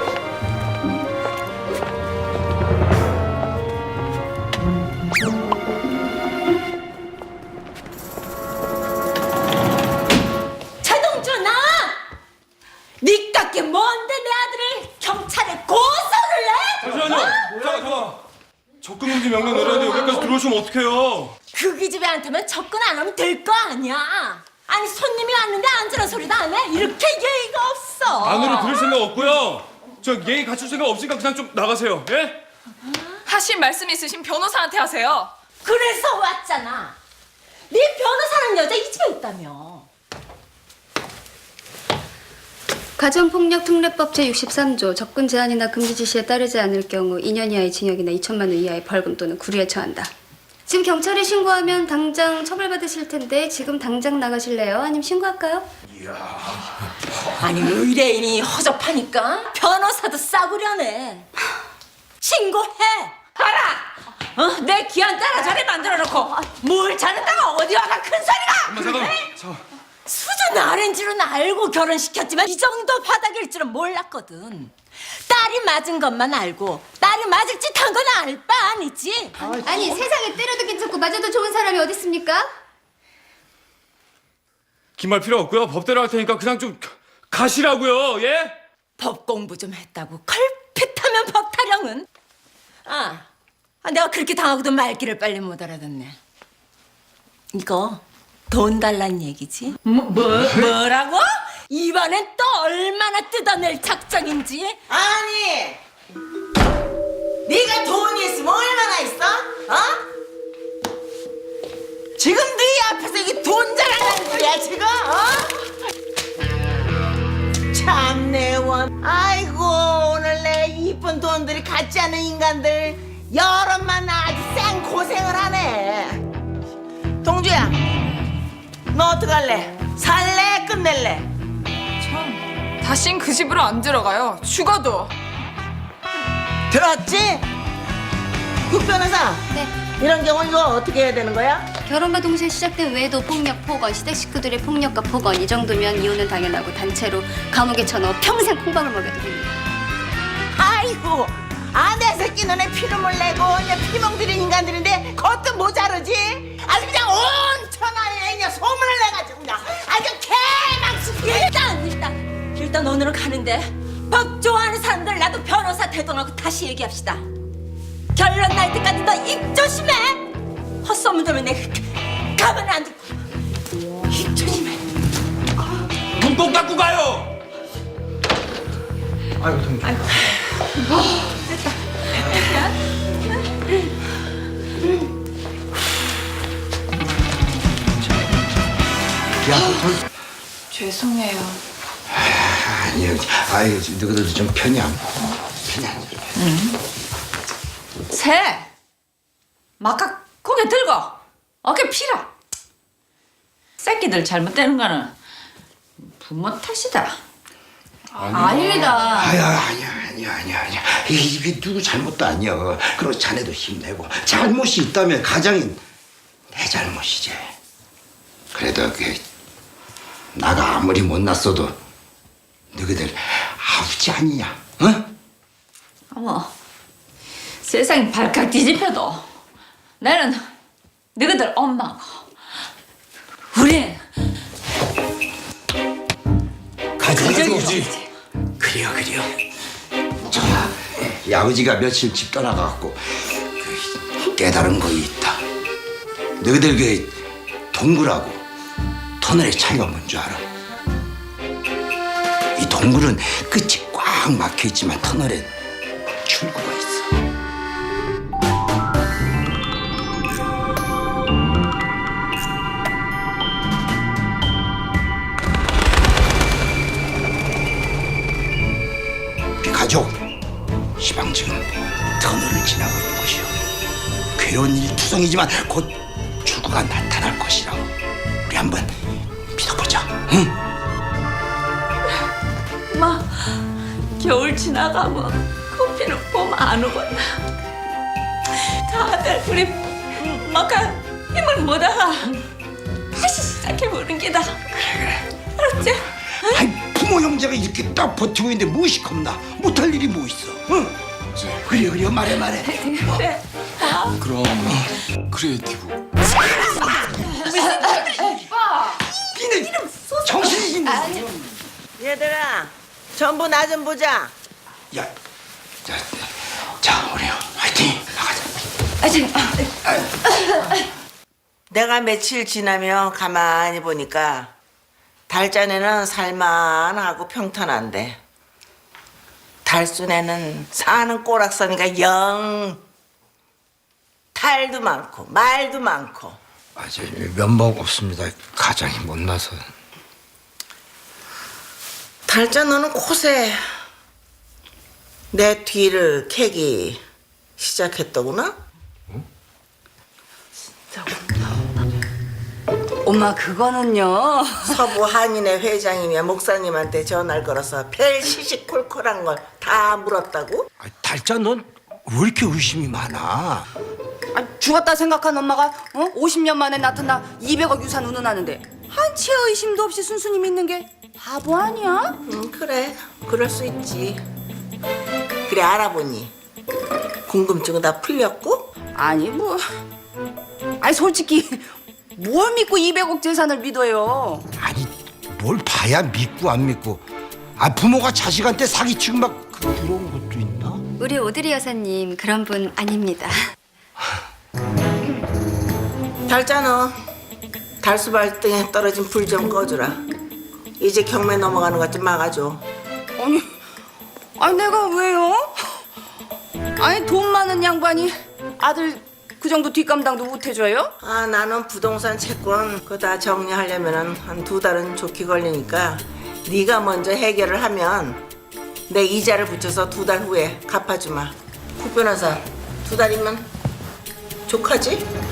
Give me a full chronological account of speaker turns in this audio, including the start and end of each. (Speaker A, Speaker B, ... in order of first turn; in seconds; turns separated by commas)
Speaker A: 10.8-12.0, Speaker A: 13.0-17.5, Speaker B: 16.8-18.2, Speaker B: 18.8-21.4, Speaker A: 21.5-28.8, Speaker B: 28.2-32.4, Speaker C: 33.3-35.3, Speaker A: 35.6-37.0, Speaker A: 37.7-39.9, Speaker D: 43.0-50.1, Speaker D: 50.7-55.7, Speaker A: 57.4-61.3, Speaker A: 62.2-69.2, Speaker B: 68.7-69.6, Speaker A: 70.1-74.7, Speaker A: 75.3-79.3, Speaker D: 79.6-82.5, Speaker B: 85.0-88.5, Speaker A: 89.0-92.1, Speaker A: 92.9-93.3, Speaker A: 93.8-96.2, Speaker A: 97.5-104.8, Speaker E: 104.9-105.8, Speaker E: 107.5-110.0, Speaker E: 112.2-115.5, Speaker E: 117.7-126.2, Speaker E: 127.2-127.8, Speaker E: 128.9-131.3, Speaker C: 132.2-135.1, Speaker E: 136.7-137.5, Speaker E: 138.7-141.7, Speaker D: 141.9-149.6, Speaker E: 150.5-161.5, Speaker A: 161.2-167.3, Speaker A: 168.2-170.3, Speaker A: 170.8-173.2, Speaker A: 174.1-174.8, Speaker B: 176.2-177.3, Speaker A: 179.8-180.3, Speaker A: 182.3-182.7, Speaker F: 189.4-190.0, Speaker C: 190.7-191.6, Speaker F: 192.1-196.4, Speaker A: 196.4-196.8, Speaker A: 198.1-198.7, Speaker A: 199.8-202.3, Speaker A: 203.8-205.1, Speaker A: 206.2-207.2, Speaker B: 208.2-209.1, Speaker A: 208.3-209.3, Speaker F: 209.1-215.8, Speaker F: 216.5-217.6, Speaker F: 218.5-219.2, Speaker F: 220.3-221.8, Speaker F: 222.7-225.1, Speaker A: 226.1-226.5, Speaker A: 227.6-229.3, Speaker A: 230.0-230.5, Speaker A: 231.2-232.2, Speaker A: 233.5-234.0, Speaker F: 237.0-237.9, Speaker A: 237.1-238.0, Speaker F: 238.6-239.3, Speaker F: 240.2-245.4, Speaker F: 246.4-247.2, Speaker F: 247.7-248.4, Speaker F: 249.2-250.5, Speaker F: 252.6-255.5, Speaker F: 256.2-257.2, Speaker F: 269.6-270.2, Speaker F: 271.0-273.5, Speaker F: 274.4-277.9, Speaker F: 278.4-278.9, Speaker F: 279.5-280.6, Speaker A: 282.9-283.6, Speaker A: 284.2-287.4, Speaker A: 288.8-292.4, Speaker A: 293.1-294.7, Speaker F: 294.7-295.2, Speaker A: 295.6-296.6, Speaker F: 296.4-300.9, Speaker B: 301.4-301.6, Speaker F: 301.6-303.3, Speaker B: 304.2-306.0, Speaker F: 307.6-308.4, Speaker F: 309.1-311.5, Speaker E: 312.0-314.3, Speaker F: 315.9-318.5, Speaker F: 319.9-320.2, Speaker E: 321.7-324.5, Speaker E: 325.3-328.2, Speaker E: 329.6-332.8, Speaker E: 334.4-336.4, Speaker F: 336.8-339.7, Speaker E: 342.3-343.6, Speaker E: 345.3-347.0, Speaker E: 347.6-348.6, Speaker G: 353.1-354.5, Speaker E: 354.6-360.7, Speaker F: 360.8-363.7, Speaker G: 364.4-372.0, Speaker E: 372.2-374.2, Speaker E: 375.5-376.3, Speaker E: 377.3-378.7, Speaker G: 379.0-379.6, Speaker G: 380.8-381.6, Speaker G: 382.2-384.3, Speaker F: 384.6-387.0, Speaker F: 387.6-390.8, Speaker D: 391.0-393.4, Speaker E: 396.3-397.0, Speaker E: 397.8-400.0, Speaker E: 400.8-402.6, Speaker G: 404.4-405.4, Speaker G: 406.8-408.1, Speaker G: 408.6-410.7, Speaker E: 411.0-418.2, Speaker E: 418.9-423.5, Speaker E: 424.5-425.0